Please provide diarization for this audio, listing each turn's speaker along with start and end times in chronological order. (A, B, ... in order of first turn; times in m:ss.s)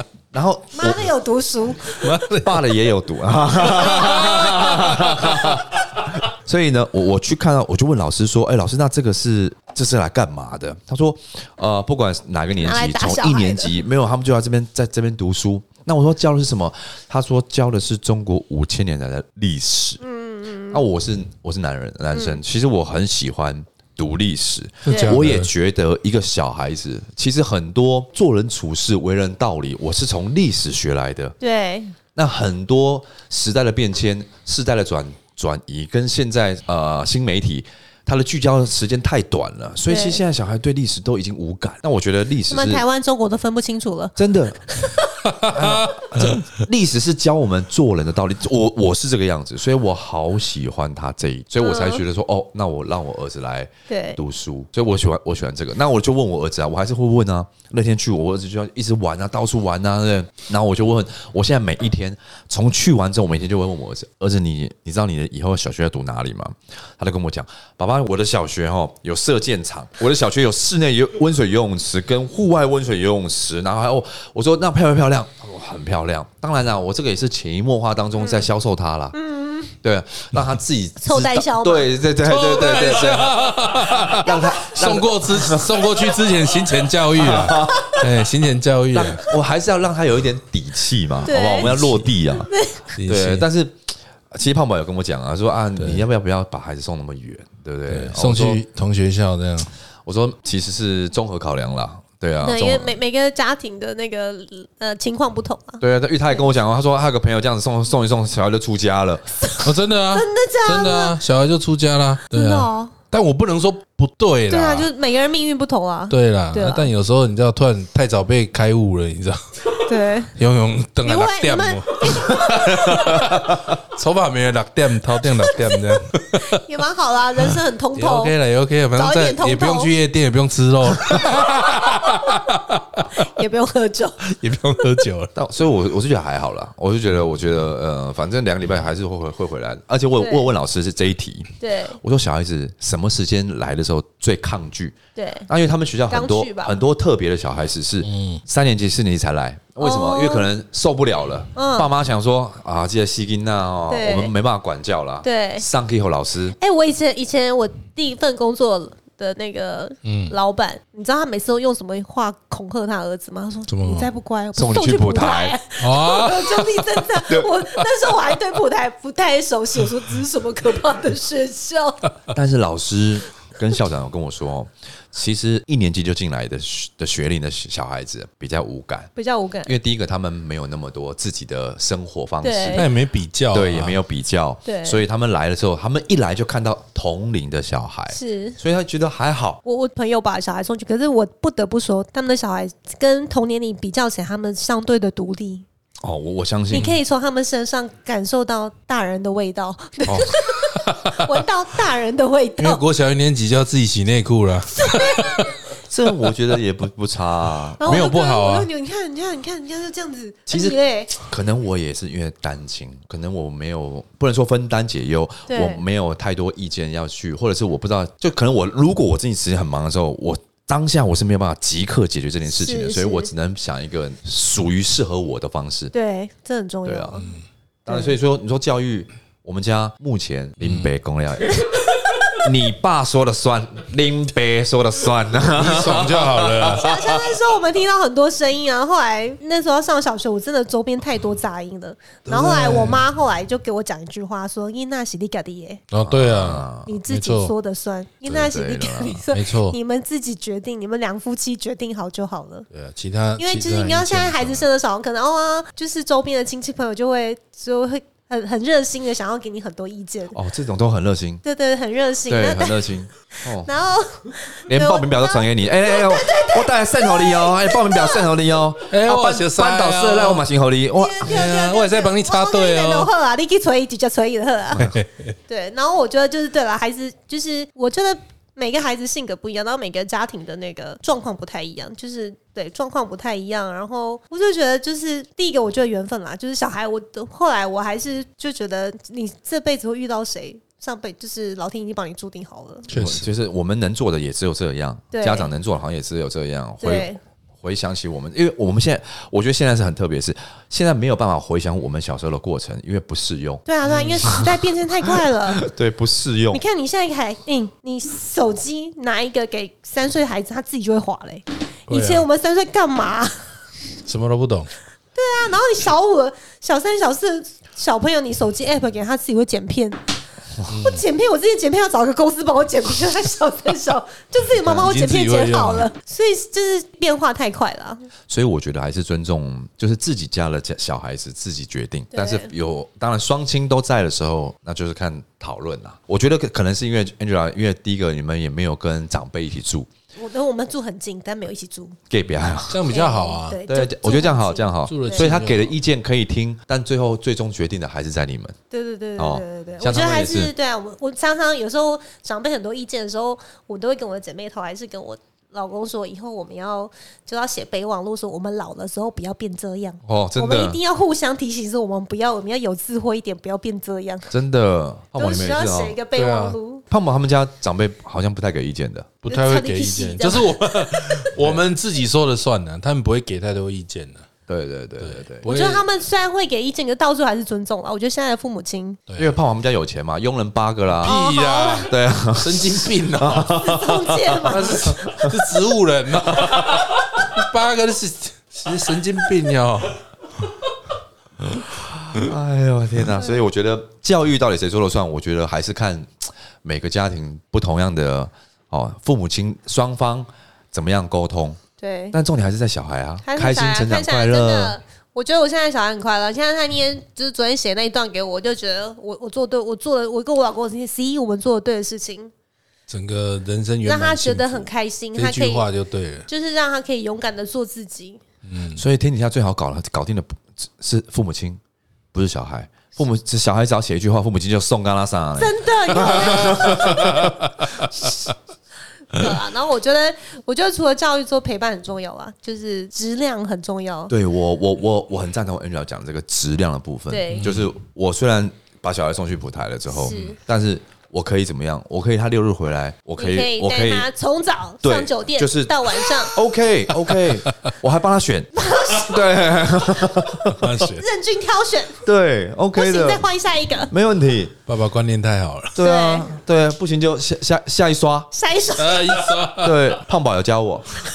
0:00.3-0:01.1 A
0:00.7-0:02.1 B
0:02.0-0:02.7 C
0:02.3-0:20.0 A
0:03.6-0:05.1 B
0:04.0-0:05.5 C
0:12.6-0:13.7 B
0:20.0-0:20.8 B
0:20.7-0:31.4 A
0:22.1-0:22.4 B
0:24.9-0:25.2 B
0:24.9-0:25.5 C
0:31.4-0:32.0 B
0:32.2-0:42.8 A
0:39.9-0:40.2 B
0:42.5-0:45.2 B
0:44.2-0:44.6 A
0:45.3-0:46.3 C
0:45.4-1:19.2 A
0:51.6-0:52.0 B
0:53.9-0:54.2 B
1:18.2-1:18.5 B
1:19.1-1:19.7 B
1:19.8-1:26.0 A
1:21.0-1:21.9 B
1:22.2-1:29.2 C
1:24.3-1:24.6 B
1:27.1-1:28.1 A
1:28.9-1:38.6 A
1:31.2-1:31.8 B
1:32.5-1:32.8 B
1:33.0-1:33.5 C
1:35.8-1:36.0 C
1:37.9-1:39.7 C
1:40.1-1:43.0 A
1:42.4-1:46.4 B
1:45.8-1:49.3 A
1:49.4-1:51.2 B
1:49.6-1:54.9 C
1:52.3-1:52.9 B
1:54.5-1:56.9 B
1:56.1-1:59.8 C
1:59.9-2:00.4 B
2:00.4-2:06.6 C
2:01.0-2:03.3 B
2:05.3-2:08.3 B
2:07.4-2:13.1 C
2:09.0-2:09.9 B
2:11.1-2:12.6 B
2:13.1-2:14.2 B
2:14.2-2:15.3 C
2:15.4-2:25.0 A
2:20.2-2:20.5 B
2:21.6-2:22.0 B
2:25.2-2:25.5 B
2:25.5-2:36.6 A
2:26.1-2:26.8 B
2:28.0-2:28.4 C
2:29.8-2:30.5 B
2:31.6-2:31.9 B
2:33.9-2:34.3 B
2:35.2-2:35.7 B
2:36.6-2:52.1 B
2:40.0-2:40.3 C
2:43.7-2:44.1 C
2:44.6-2:45.6 A
2:45.8-2:47.0 C
2:52.3-2:59.1 A
2:59.2-2:59.8 B
2:59.6-3:02.9 A
3:02.4-3:02.9 B
3:02.7-3:04.0 C
3:03.5-3:09.6 A
3:04.6-3:05.0 B
3:08.1-3:08.6 B
3:09.6-3:15.6 B
3:16.0-3:17.0 A
3:16.7-3:22.8 B
3:20.1-3:20.4 A
3:20.7-3:21.4 C
3:22.6-3:25.4 C
3:24.8-3:25.6 B
3:25.8-3:28.1 A
3:27.8-3:28.7 C
3:27.8-3:31.2 B
3:30.5-3:45.9 A
3:35.5-3:35.8 B
3:42.5-3:43.3 B
3:45.9-3:47.3 B
3:46.8-3:47.3 A
3:47.9-3:57.2 A
3:51.7-3:52.3 B
3:55.4-3:56.9 C
3:56.8-4:05.8 B
4:02.3-4:03.1 C
4:05.9-4:07.5 C
4:06.0-4:07.0 A
4:06.9-4:12.7 B
4:08.3-4:09.2 A
4:09.3-4:09.8 C
4:12.7-4:14.7 C
4:13.4-4:20.4 B
4:20.3-4:21.4 A
4:21.4-4:22.8 B
4:22.3-4:23.7 A
4:23.6-4:28.3 B
4:24.7-4:31.4 A
4:28.9-4:30.4 C
4:31.0-4:34.9 B
4:31.2-4:33.1 C
4:34.8-4:35.4 C
4:35.5-4:52.9 B
4:52.9-4:53.3 C
4:52.9-4:57.1 A
4:55.1-4:55.5 B
4:56.8-4:57.2 B
4:57.6-5:03.6 A
5:03.7-5:05.6 B
5:03.8-5:04.4 C
5:04.2-5:04.5 A
5:05.6-5:06.6 A
5:06.5-5:13.4 B
5:11.9-5:12.3 C
5:14.1-5:14.7 C
5:15.2-5:20.0 B
5:20.7-5:21.0 C
5:20.7-5:28.1 B
5:24.5-5:25.9 C
5:28.3-5:39.9 A
5:32.1-5:32.5 B
5:40.2-5:42.0 B
5:42.1-5:42.9 A
5:42.7-5:43.6 C
5:42.8-5:45.3 B
5:43.7-5:48.6 A
5:44.9-5:45.7 C
5:48.7-6:04.3 B
5:49.2-5:50.5 A
6:00.0-6:00.8 A
6:04.3-6:06.0 A
6:05.2-6:06.8 B
6:06.1-6:06.6 C
6:06.9-6:09.2 A
6:09.2-6:14.3 C
6:09.3-6:11.3 B
6:14.5-6:15.5 A
6:15.0-6:15.9 C
6:15.4-6:19.0 B
6:19.2-6:21.2 A
6:21.0-6:23.6 C
6:21.0-6:21.9 B
6:21.8-6:25.4 A
6:23.5-6:25.0 B
6:24.5-6:30.0 C
6:26.3-6:26.9 A
6:31.7-6:41.6 A
6:41.8-6:42.2 B
6:42.1-6:44.8 A
6:43.2-6:52.3 B
6:52.9-6:56.3 C
6:53.8-6:55.7 B
6:56.3-6:58.2 B
6:58.5-6:58.8 C
6:58.8-7:01.6 A
7:02.1-7:07.8 A
7:05.4-7:07.3 B
7:06.6-7:07.3 C
7:09.1-7:14.1 B
7:14.1-7:24.1 A
7:17.1-7:17.5 B
7:17.3-7:17.7 C
7:19.9-7:20.4 B
7:23.2-7:26.3 B
7:24.8-7:30.8 A
7:27.1-7:27.7 C
7:28.6-7:29.2 B
7:30.5-7:31.0 C
7:30.8-7:32.0 B
7:32.0-7:33.3 A
7:32.8-7:33.9 B
7:33.9-7:34.6 A
7:34.7-7:35.8 C
7:35.8-7:38.3 A
7:35.8-7:36.4 B
7:38.3-7:39.2 B
7:38.8-7:39.9 C
7:39.6-7:40.9 A